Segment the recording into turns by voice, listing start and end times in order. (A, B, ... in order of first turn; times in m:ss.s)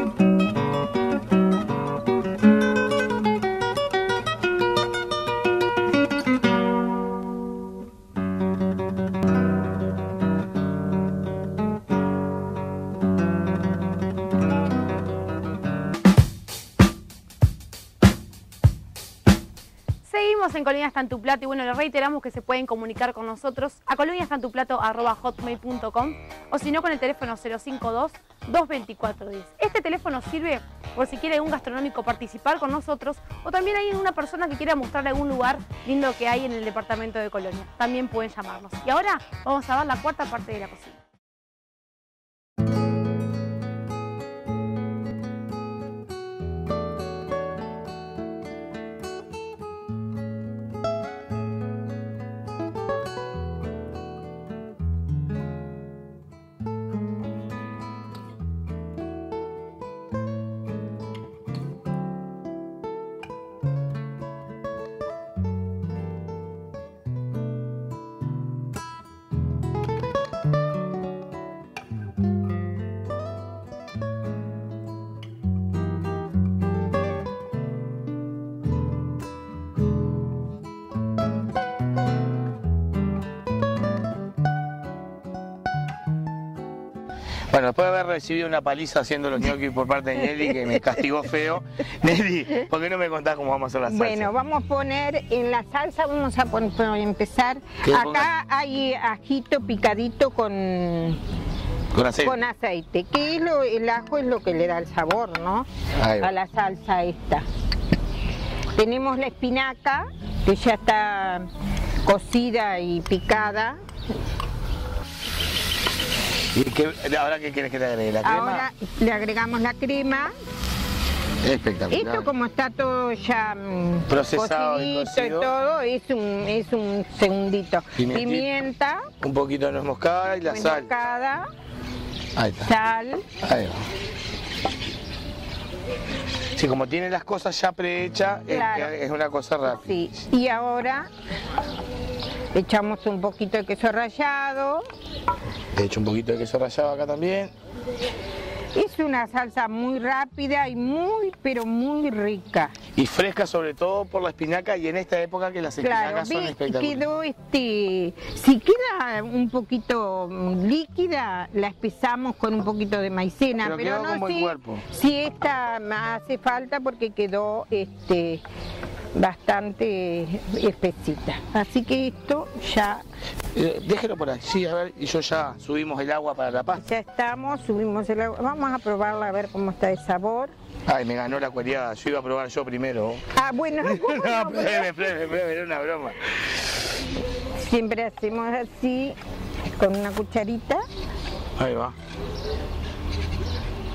0:20.0-0:41.0 A
1:27.5-1:34.3 B
1:33.8-1:41.2 C
1:37.8-1:38.3 B
1:41.9-1:42.4 B
1:42.2-1:45.7 C
1:46.0-1:46.3 B
1:46.2-1:47.4 C
1:48.8-1:51.5 C
1:52.0-1:53.8 C
1:56.5-1:58.6 B
1:58.2-2:00.3 C
2:01.4-2:02.3 B
2:01.9-2:09.1 C
2:04.1-2:05.5 B
2:08.0-2:08.5 B
2:09.2-2:10.9 B
2:10.5-2:11.5 C
2:12.4-2:12.7 B
2:12.6-2:13.3 C
2:13.4-2:13.8 B
2:16.5-2:19.9 B
2:18.5-2:18.9 C
2:19.7-2:21.1 C
2:22.5-2:24.9 C
2:25.7-2:27.5 B
2:28.7-2:32.7 C
2:33.0-2:37.0 B
2:35.8-2:48.4 C
2:43.6-2:44.8 B
2:49.1-2:53.0 C
2:53.5-2:56.8 B
2:56.8-3:00.5 C
3:00.9-3:03.2 B
3:03.3-3:05.0 C
3:03.8-3:06.2 B
3:07.6-3:09.2 C
3:09.8-3:10.8 C
3:11.6-3:11.9 B